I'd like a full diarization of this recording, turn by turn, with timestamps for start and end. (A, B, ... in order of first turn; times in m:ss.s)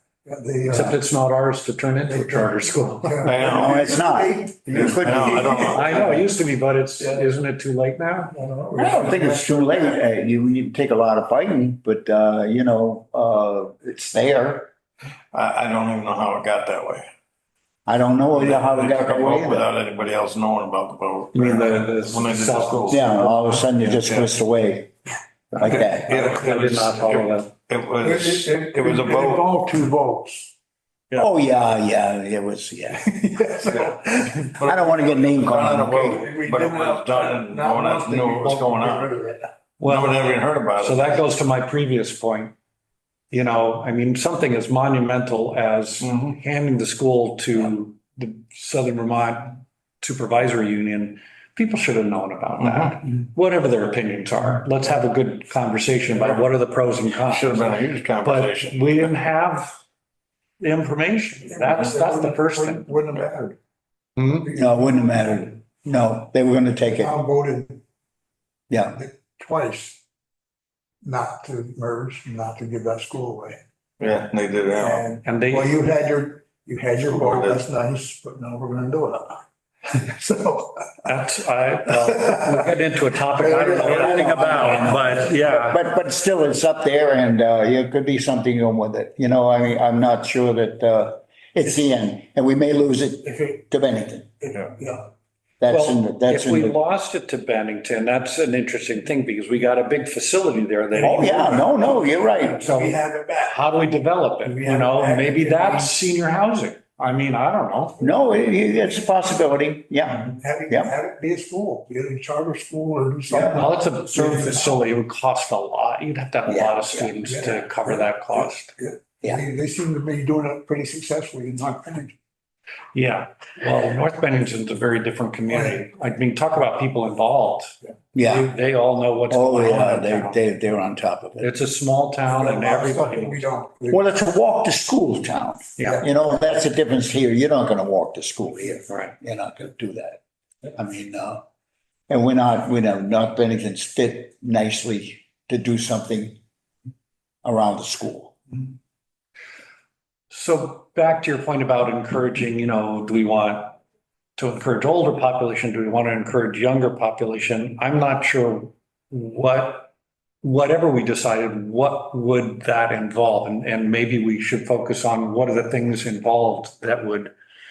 0:00.2-0:01.0 A
0:00.7-0:03.4 B
0:02.1-0:06.1 A
0:03.2-0:03.8 C
0:03.4-0:05.5 D
0:04.7-0:06.2 C
0:05.5-0:08.4 B
0:08.3-0:10.0 A
0:08.8-0:14.7 D
0:15.3-0:17.0 C
0:17.9-0:19.7 D
0:18.3-0:24.3 C
0:21.3-0:23.7 B
0:22.9-0:25.0 D
0:25.5-0:26.2 D
0:25.6-0:29.7 C
0:26.1-0:27.5 B
0:26.1-0:26.5 A
0:28.0-0:30.5 A
0:31.2-0:33.5 D
0:33.1-0:35.2 A
0:33.7-0:39.1 C
0:34.6-0:36.3 D
0:35.9-0:39.5 A
0:39.8-0:42.6 B
0:39.8-0:41.2 C
0:43.3-0:59.7 B
0:46.0-0:46.3 C
0:52.6-0:53.0 C
0:57.1-0:59.2 C
1:00.6-1:03.1 B
1:01.5-1:03.6 A
1:04.2-1:04.5 B
1:04.4-1:05.0 A
1:04.5-1:07.2 D
1:07.0-1:07.8 A
1:08.7-1:09.0 D
1:09.0-1:10.0 A
1:11.0-1:13.6 A
1:14.0-1:15.1 C
1:14.8-1:20.9 A
1:15.2-1:15.8 B
1:17.1-1:17.6 C
1:21.0-1:25.8 B
1:22.1-1:22.5 A
1:23.3-1:25.1 A
1:23.8-1:24.9 C
1:24.0-1:34.3 D
1:34.4-1:35.1 A
1:35.6-1:36.8 D
1:35.7-1:41.6 B
1:41.0-1:42.7 D
1:41.1-1:41.8 A
1:42.4-1:48.0 B
1:42.4-1:43.6 A
1:44.4-1:46.0 A
1:48.0-1:51.0 D
1:50.3-1:54.8 A
1:53.3-1:58.7 B
1:56.5-1:57.1 D
1:57.3-2:02.2 A
2:02.9-2:10.4 B
2:05.5-2:05.8 A
2:08.2-2:08.6 D
2:09.3-2:11.6 D
2:11.4-2:13.4 B
2:12.3-2:14.0 A
2:13.9-2:20.2 D
2:18.9-2:19.2 B
2:20.7-2:21.4 D
2:22.1-2:26.4 D
2:27.4-2:28.4 D
2:30.3-2:33.8 B
2:34.4-2:47.3 B